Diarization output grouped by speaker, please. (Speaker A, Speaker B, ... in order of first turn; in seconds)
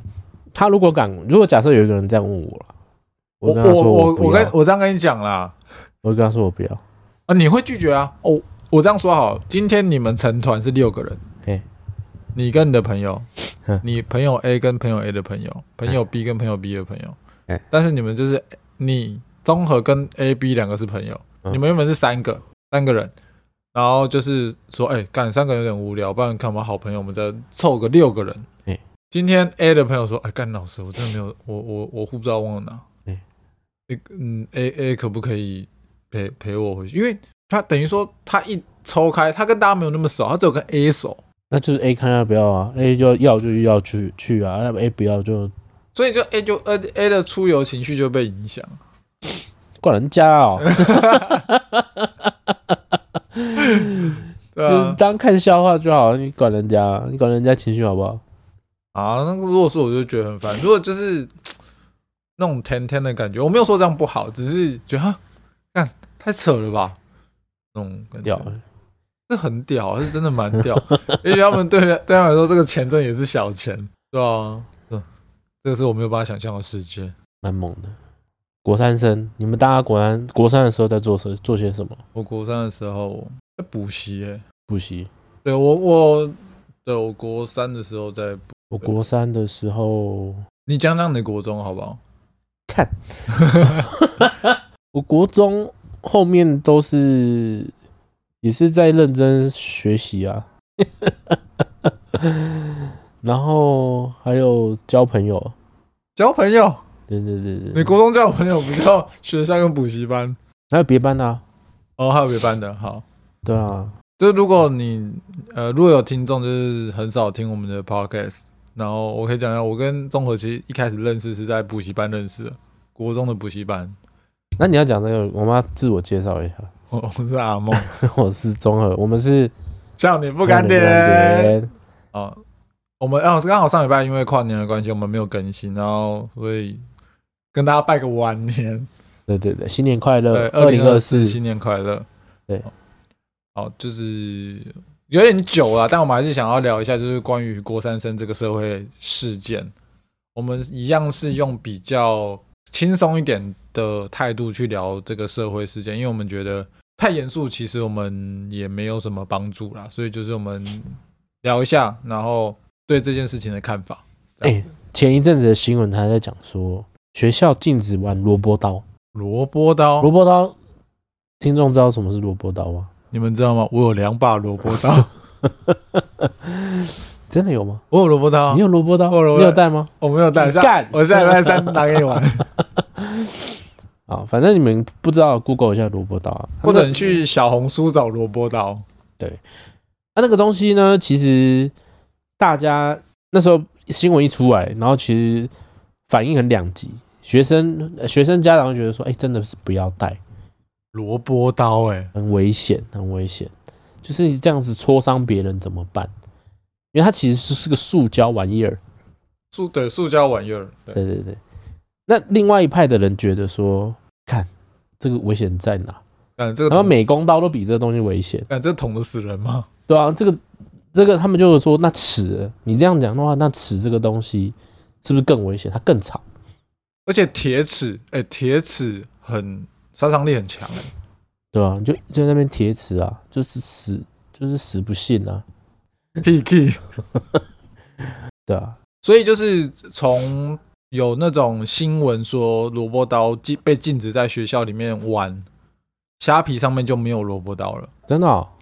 Speaker A: 0.5-2.7, 3.4-4.5, 6.0-6.8, 41.5-45.5, 49.8-58.2, 68.2-68.6, 70.9-71.2, 77.4-78.0, 78.6-82.0, 84.7-85.1, 88.7-90.4, 92.7-92.9, 93.5-97.7, 98.4-101.4, 102.1-105.5, 107.1-108.0, 110.7-111.4, 113.5-113.9, 124.6-126.7, 127.7-129.5, 130.4-131.7, 139.3-141.4, 164.4-168.8, 170.0-170.6, 171.4-172.9, 175.4-177.8, 178.5-182.2, 182.8-183.5, 184.1-187.2, 190.2-191.7, 192.4-195.5, 196.1-200.2, 202.2-206.1, 206.9-208.8, 210.9-211.4, 212.1-216.0, 216.7-218.5, 219.9-220.4, 220.9-226.2, 231.5-235.4, 238.5-238.8, 248.1-248.5
Speaker B: 3.5-5.6, 7.3-11.2, 12.3-13.3, 13.8-17.2, 17.7-23.1, 23.7-28.5, 29.1-32.8, 33.9-41.2, 46.0-48.8, 50.6-51.5, 53.6-55.0, 58.9-61.5, 62.4-65.2, 65.7-67.0, 67.7-68.5, 69.3-75.1, 75.6-77.2, 82.2-84.4, 85.4-88.5, 90.7-92.0, 93.3-93.9, 106.2-106.8, 107.7-110.4, 112.0-113.0, 114.2-124.0, 126.9-127.9, 130.0-131.6, 132.1-132.4, 133.0-136.8, 137.5-138.9, 140.3-142.1, 143.6-149.7, 150.3-164.6, 169.1-170.1, 173.1-175.1, 177.9-182.5, 186.6-188.8, 200.9-202.1, 209.5-211.0, 216.4-216.9, 218.5-219.7, 227.1-230.9, 236.2-236.8, 239.0-245.5, 246.2-247.9